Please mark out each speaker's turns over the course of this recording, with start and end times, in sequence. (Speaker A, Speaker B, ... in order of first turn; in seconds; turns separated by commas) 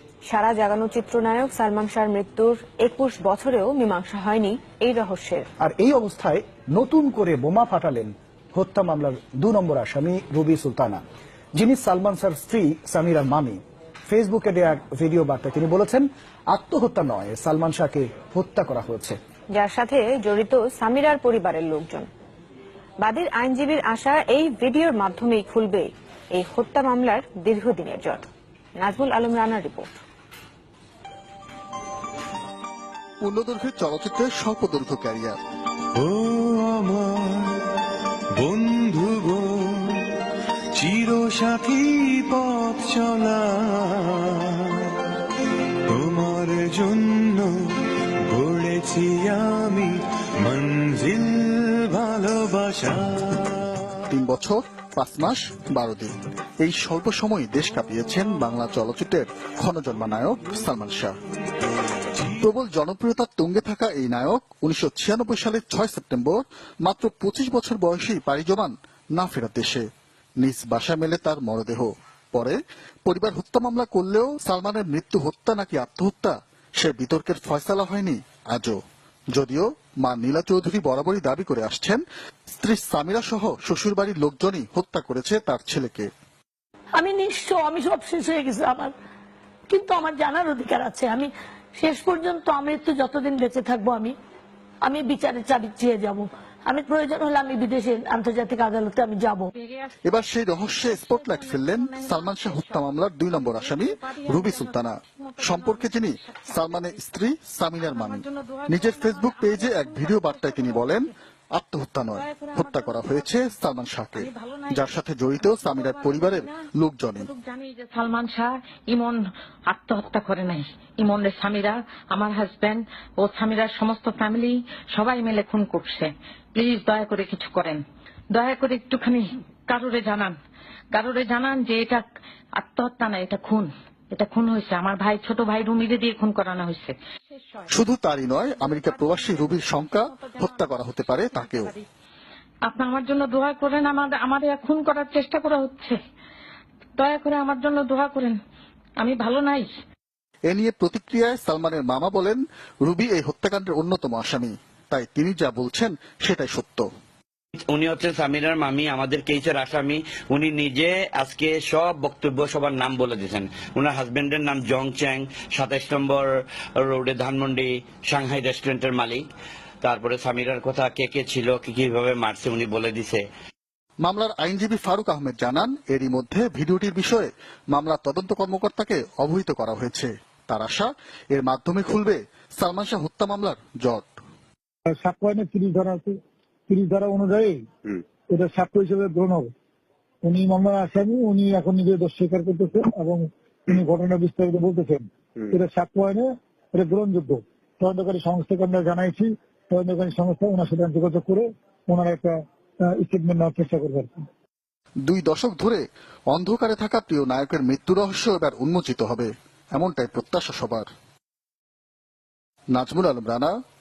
Speaker A: 0.3-5.5, Speaker B: 5.6-11.0, Speaker B: 11.6-19.2, Speaker A: 19.5-22.1, Speaker A: 23.0-30.0, Speaker C: 33.2-35.4, Speaker D: 36.0-37.5, Speaker D: 38.4-40.0, Speaker D: 40.7-44.9, Speaker D: 45.9-47.5, Speaker D: 48.3-54.0, Speaker C: 54.1-61.1, Speaker C: 62.4-69.8, Speaker C: 70.4-78.8, Speaker C: 79.3-82.0, Speaker C: 82.5-86.1, Speaker E: 87.0-88.9, Speaker E: 89.7-94.1, Speaker E: 94.8-99.5, Speaker F: 99.5-100.0, Speaker C: 100.0-117.3, Speaker F: 100.6-107.0, Speaker F: 107.8-111.1, Speaker F: 112.1-113.5, Speaker F: 114.1-114.9, Speaker F: 115.4-116.6, Speaker F: 117.2-127.8, Speaker F: 128.3-130.3, Speaker F: 130.9-132.0, Speaker F: 132.6-137.7, Speaker C: 137.7-141.7, Speaker F: 138.5-141.9, Speaker F: 142.7-146.0, Speaker F: 147.0-148.4, Speaker F: 149.0-149.7, Speaker C: 150.5-156.8, Speaker G: 157.7-169.2, Speaker G: 169.8-173.2, Speaker C: 174.0-184.1, Speaker H: 184.9-186.2, Speaker H: 186.7-187.6, Speaker H: 188.3-189.5, Speaker H: 190.2-204.1, Speaker C: 205.1-210.9, Speaker C: 212.7-213.5